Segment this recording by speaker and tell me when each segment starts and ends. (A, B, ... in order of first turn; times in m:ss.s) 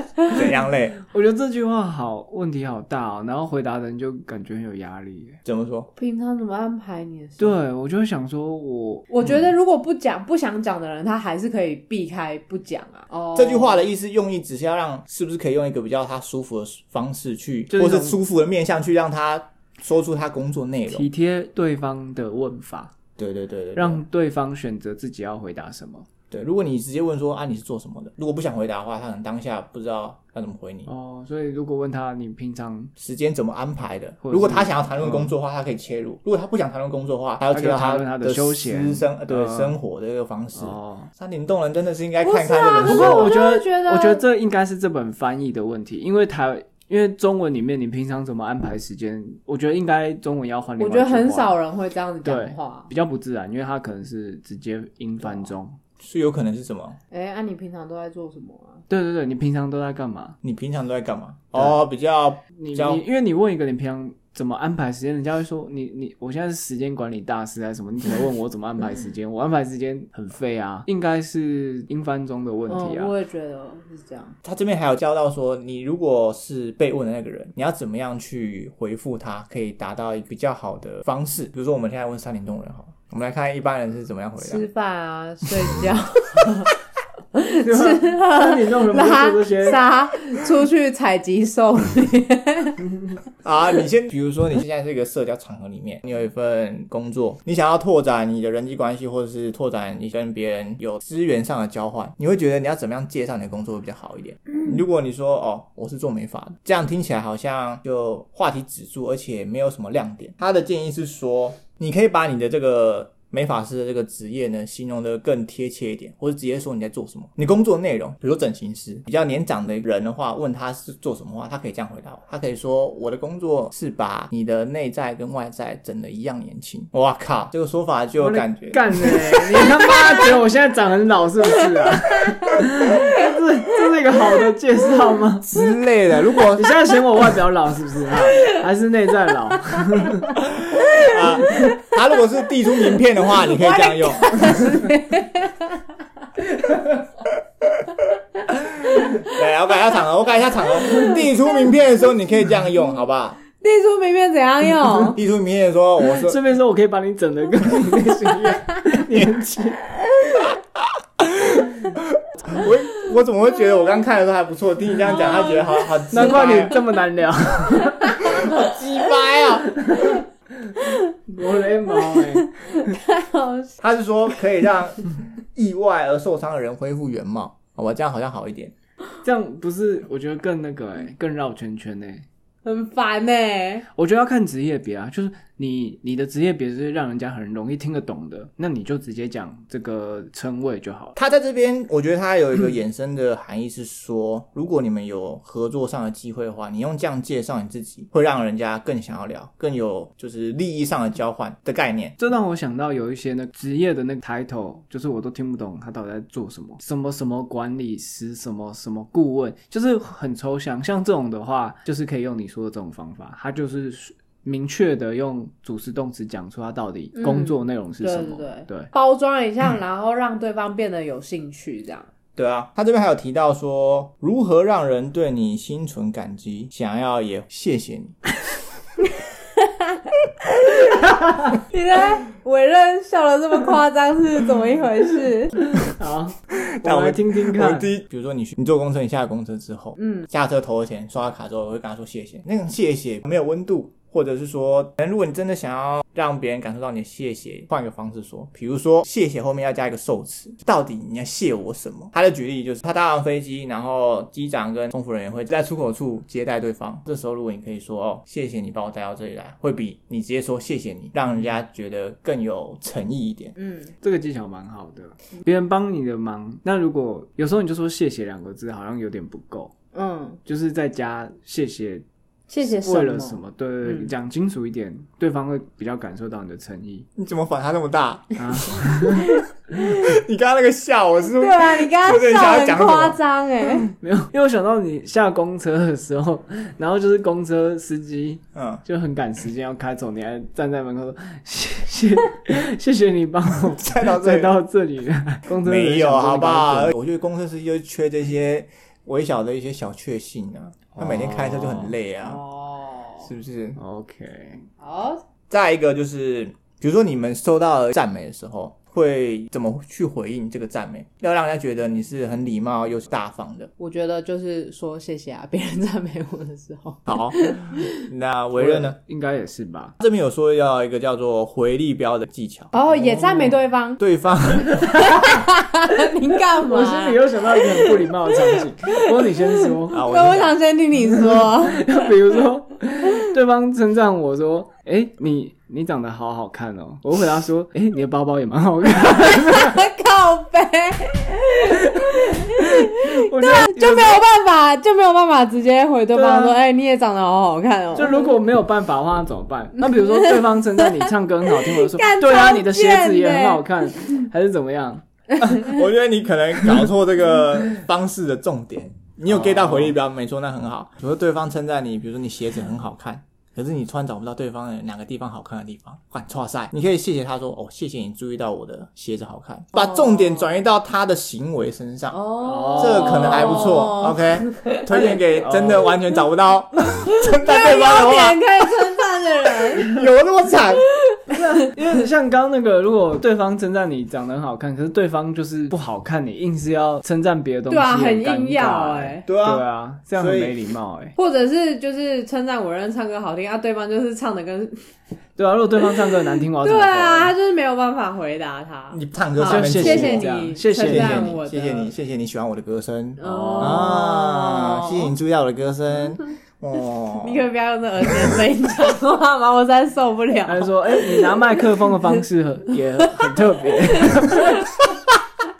0:00.3-0:01.0 A
0:01.1-0:05.4 B
0:05.4-0:05.9 A
0:06.0-0:07.6 C
0:07.4-0:09.1 B
0:09.1-0:13.8 C
0:13.4-0:21.1 A
0:17.7-0:18.2 B
0:20.9-0:22.9 B
0:23.2-0:24.0 A
0:23.8-0:26.1 B
0:26.3-0:30.9 A
0:30.9-0:32.9 B
0:33.0-0:43.3 A
0:34.2-0:35.3 B
0:37.5-0:39.8 B
0:40.6-0:41.1 B
0:42.2-0:44.2 C
0:42.8-0:51.6 B
0:50.8-0:52.9 C
0:52.2-0:55.8 B
0:56.0-0:57.0 A
0:57.1-0:58.8 C
0:58.9-1:00.4 B
1:00.4-1:03.0 A
1:02.6-1:13.1 B
1:12.7-1:14.4 C
1:14.4-1:24.7 A
1:24.4-1:26.7 C
1:27.3-1:32.8 C
1:27.6-1:29.8 B
1:32.9-1:33.2 B
1:33.4-2:09.9 A
2:08.2-2:15.5 B
2:15.4-2:16.8 A
2:16.6-2:20.4 B
2:20.5-2:24.8 A
2:20.9-2:21.8 C
2:23.3-2:25.8 C
2:28.5-2:33.4 A
2:30.9-2:31.2 C
2:33.6-2:35.2 C
2:35.1-2:36.4 A
2:36.0-2:39.8 B
2:41.2-2:46.8 A
2:45.2-2:45.9 C
2:46.1-2:48.4 B
2:48.2-2:49.8 A
2:48.2-2:48.7 C
2:49.8-2:53.0 B
2:50.9-2:51.1 C
2:52.0-2:53.8 C
2:53.8-2:58.7 A
2:59.2-3:02.2 B
3:02.6-3:03.9 C
3:04.0-3:11.2 B
3:11.2-3:22.2 A
3:22.2-3:38.9 B
3:37.2-3:42.1 C
3:42.4-3:48.2 A
3:49.6-3:55.6 C
3:55.8-3:57.9 B
3:56.6-4:23.6 A
4:00.0-4:00.3 C
4:23.6-4:23.9 C
4:24.0-4:29.7 B
4:29.9-4:30.4 C
4:30.5-4:32.0 B
4:32.5-4:34.1 C
4:32.6-4:37.1 B
4:37.2-4:43.2 A
4:38.4-4:39.3 B
4:39.3-4:40.2 C
4:41.3-4:43.9 C
4:43.9-4:56.9 B
4:48.5-4:48.8 A
4:53.7-4:54.6 A
4:55.5-5:02.4 A
5:01.0-5:02.0 B
5:02.2-5:03.3 C
5:03.2-5:03.8 A
5:03.8-5:04.7 B
5:04.8-5:05.2 C
5:05.5-5:13.7 A
5:13.8-5:17.9 C
5:17.1-5:19.0 A
5:18.6-5:20.0 B
5:20.0-5:25.1 A
5:22.7-5:24.0 C
5:24.7-5:25.4 B
5:25.0-5:32.0 C
5:26.6-5:30.0 B
5:29.9-5:30.6 A
5:31.1-5:39.8 B
5:39.0-5:48.3 C
5:41.6-5:44.2 B
5:46.1-5:46.6 B
5:47.9-5:55.0 B
5:49.9-5:54.2 C
5:55.4-6:18.7 A
5:59.3-5:59.9 B
6:09.7-6:10.5 C
6:12.1-6:15.2 C
6:12.4-6:13.8 B
6:15.0-6:16.0 B
6:16.9-6:20.0 C
6:19.7-6:20.9 A
6:21.0-6:21.4 C
6:21.3-6:31.2 B
6:27.7-6:29.2 C
6:29.3-6:30.6 A
6:31.2-6:34.8 C
6:35.4-6:37.3 B
6:36.6-6:41.9 C
6:38.9-6:47.4 A
6:39.4-6:41.4 B
6:43.2-6:45.1 C
6:43.2-6:44.0 B
6:47.2-6:51.4 C
6:48.1-6:48.4 A
6:50.5-6:54.7 B
6:54.0-6:54.9 C